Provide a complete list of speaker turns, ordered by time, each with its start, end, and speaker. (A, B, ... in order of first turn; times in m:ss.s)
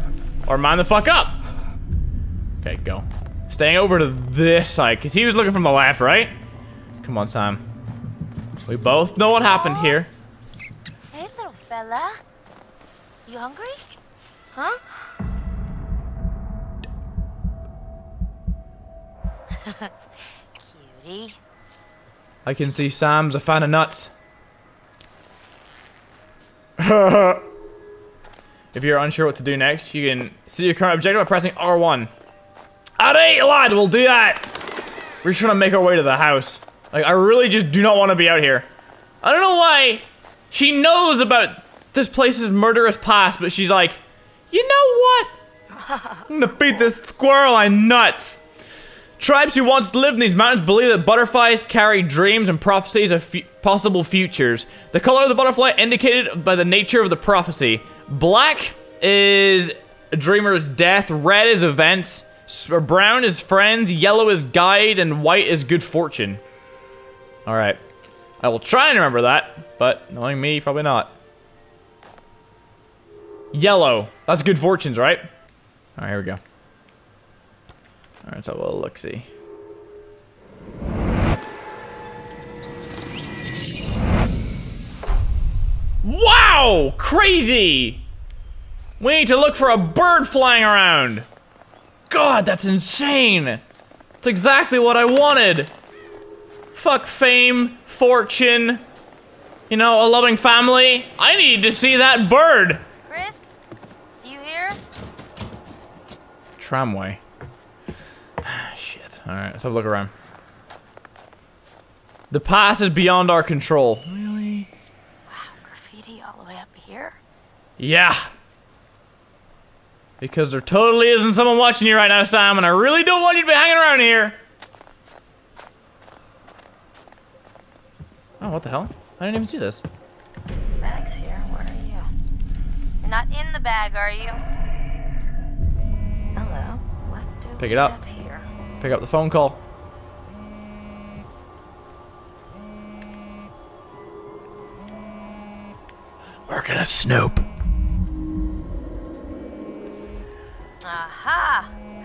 0:00.4-0:01.4 A
0:02.6-0:06.3 A
0:07.0-0:07.6 A
0:08.6-0:10.1 A
0:09.4-0:10.0 B
0:11.1-0:12.2 B
0:13.2-0:13.8 B
0:14.5-0:14.8 B
0:19.6-0:19.9 B
0:20.5-0:21.4 B
0:22.4-0:24.1 A
0:26.8-0:27.4 A
0:28.7-0:32.1 A
0:33.0-0:34.4 A
0:35.2-0:38.7 A
0:39.2-0:45.3 A
0:45.8-0:46.2 B
0:46.3-0:48.4 A
0:49.2-1:06.4 A
1:07.4-1:07.8 A
1:08.4-1:11.1 A
1:13.5-1:15.3 A
1:16.0-1:16.4 A
1:18.2-1:19.3 A
1:26.0-1:28.0 A
1:29.0-1:31.2 A
1:32.1-1:33.6 A
1:34.2-1:35.7 A
1:36.7-1:38.8 A
1:39.7-1:42.8 A
1:43.1-1:43.6 B
1:44.2-1:44.8 B
1:46.6-1:47.2 A
1:48.4-1:50.1 A
1:52.3-1:54.7 A
1:55.3-1:57.2 B
1:57.8-1:58.3 A
2:00.2-2:04.4 A
2:08.4-2:09.8 A
2:10.8-2:12.1 B
2:13.0-2:14.4 B
2:16.3-2:18.5 B
2:17.6-2:18.0 A
2:18.8-2:19.6 A
2:26.5-2:27.4 A
2:30.8-2:31.7 B